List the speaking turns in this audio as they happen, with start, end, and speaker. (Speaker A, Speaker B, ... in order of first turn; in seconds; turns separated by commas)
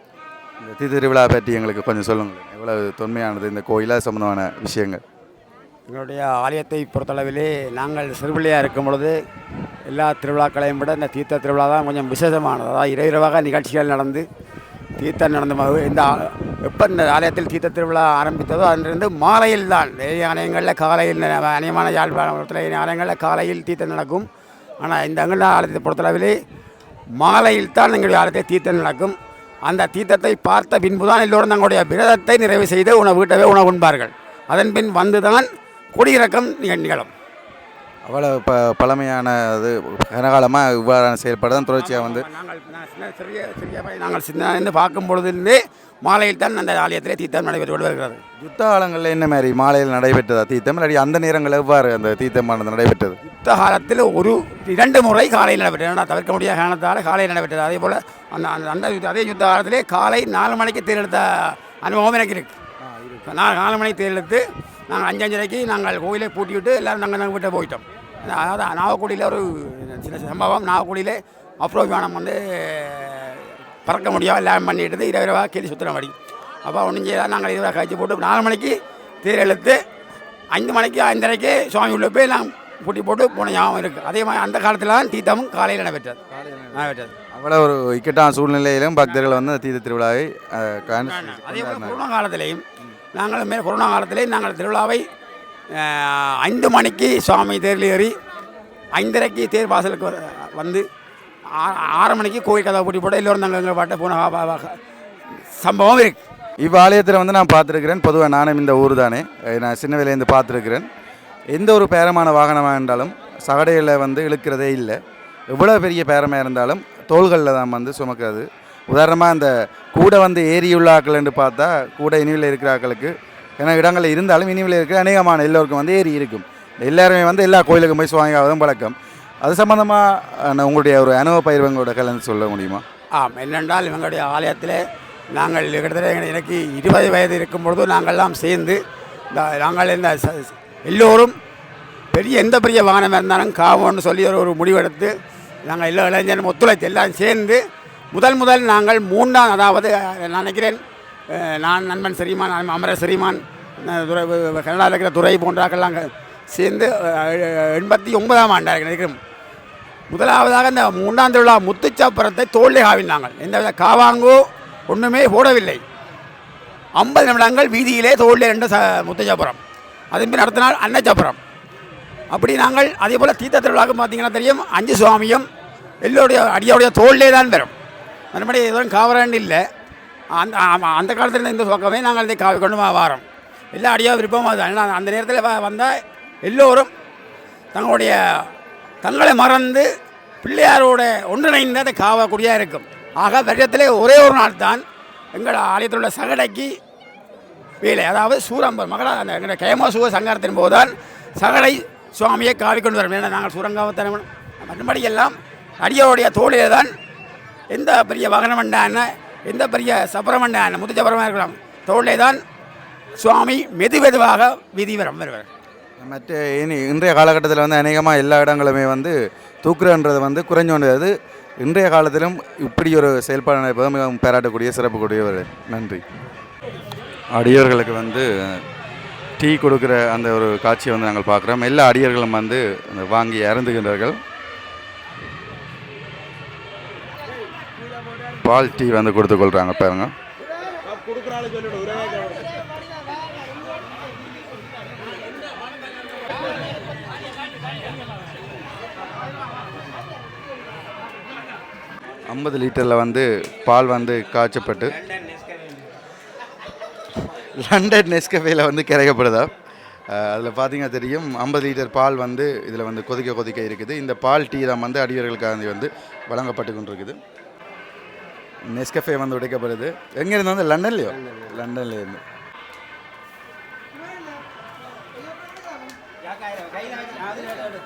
Speaker A: 0.6-5.0, Speaker B: 5.9-9.2, Speaker B: 9.9-14.2, Speaker B: 15.0-24.3, Speaker B: 24.8-26.4, Speaker B: 27.1-37.1, Speaker A: 38.0-42.2, Speaker B: 41.7-48.2, Speaker A: 48.4-53.2, Speaker B: 53.2-62.5, Speaker A: 62.9-63.2, Speaker B: 63.2-79.8, Speaker B: 80.5-86.2, Speaker A: 86.3-92.0, Speaker B: 86.7-87.1, Speaker B: 90.9-92.6, Speaker B: 93.1-95.0, Speaker B: 95.7-98.1, Speaker B: 98.9-100.8, Speaker B: 101.5-104.8, Speaker B: 105.5-106.2, Speaker A: 106.6-110.9, Speaker A: 111.5-115.0, Speaker A: 115.5-132.8, Speaker B: 133.2-134.8, Speaker B: 135.3-138.8, Speaker B: 139.3-141.3, Speaker B: 142.1-145.1, Speaker B: 145.6-147.6, Speaker B: 148.1-150.8, Speaker B: 151.3-159.2, Speaker B: 160.1-165.8, Speaker B: 167.0-169.6, Speaker B: 170.1-171.4, Speaker B: 172.3-175.4, Speaker B: 176.0-177.7, Speaker B: 178.3-179.6, Speaker B: 180.3-186.9, Speaker B: 187.7-188.5, Speaker B: 189.0-189.9, Speaker B: 190.4-194.8, Speaker B: 195.3-196.7, Speaker B: 197.8-206.9, Speaker B: 207.7-212.4, Speaker B: 213.2-215.5, Speaker A: 216.0-226.0, Speaker A: 227.3-228.6, Speaker A: 229.4-234.2, Speaker A: 238.4-240.1, Speaker A: 252.3-255.1, Speaker A: 257.2-259.5, Speaker A: 260.1-267.2, Speaker A: 268.7-272.2